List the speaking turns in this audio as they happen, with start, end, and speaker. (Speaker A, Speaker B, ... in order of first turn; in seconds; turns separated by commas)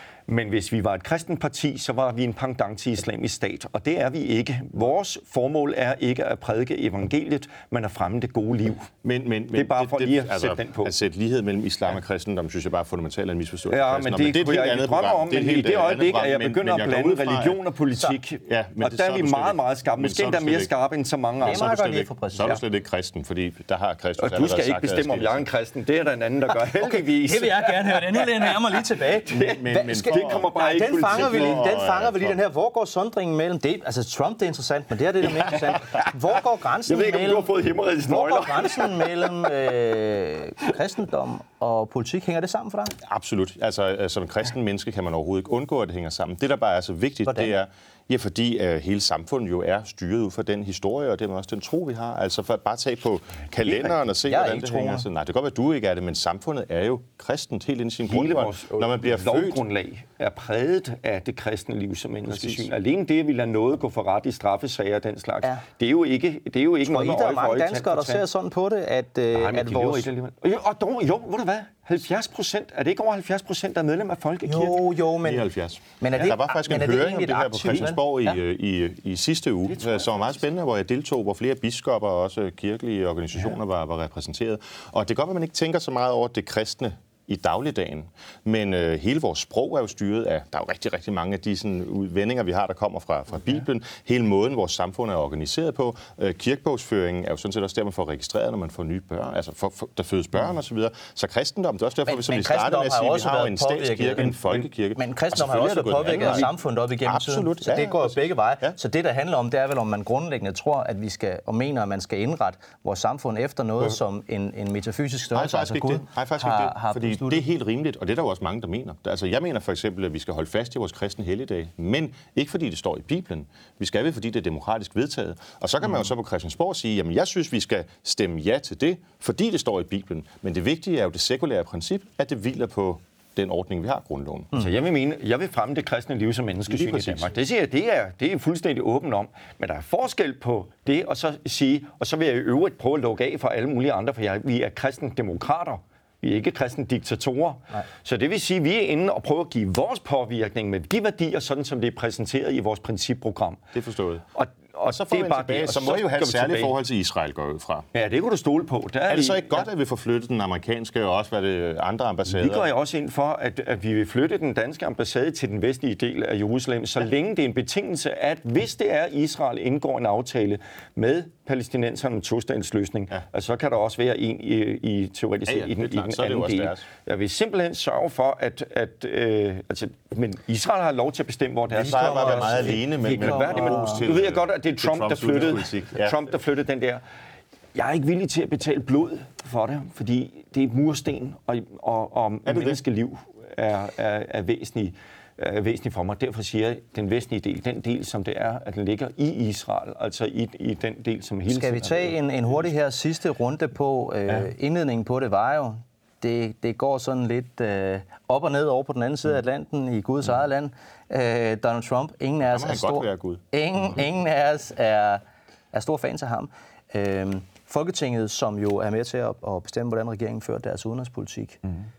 Speaker A: 0.3-8.9, Speaker B: 9.0-17.6, Speaker A: 9.5-10.9, Speaker A: 13.7-21.7, Speaker B: 18.4-20.7, Speaker C: 21.4-22.6, Speaker B: 21.4-25.5, Speaker A: 24.2-31.8, Speaker C: 26.6-37.5, Speaker B: 29.4-30.5, Speaker B: 31.0-32.4, Speaker A: 35.2-39.7, Speaker C: 38.0-42.9, Speaker B: 43.0-59.6, Speaker A: 53.6-54.0, Speaker C: 54.2-55.1, Speaker A: 58.0-68.2, Speaker B: 62.3-62.7, Speaker C: 66.8-70.1, Speaker A: 69.3-74.9, Speaker C: 74.5-75.5, Speaker B: 75.2-108.7, Speaker C: 76.0-78.3, Speaker A: 77.7-78.0, Speaker A: 79.7-80.4, Speaker C: 102.0-117.4, Speaker B: 115.3-134.5, Speaker A: 134.5-153.6, Speaker B: 136.7-137.3, Speaker B: 153.7-154.2, Speaker A: 154.3-156.7, Speaker B: 154.9-157.8, Speaker A: 157.9-159.7, Speaker B: 159.1-162.7, Speaker A: 162.3-187.0, Speaker B: 175.5-176.9, Speaker B: 181.7-186.2, Speaker C: 181.7-184.1, Speaker A: 187.7-202.6, Speaker B: 192.4-192.8, Speaker C: 201.5-215.2, Speaker B: 212.5-213.4, Speaker C: 215.7-221.6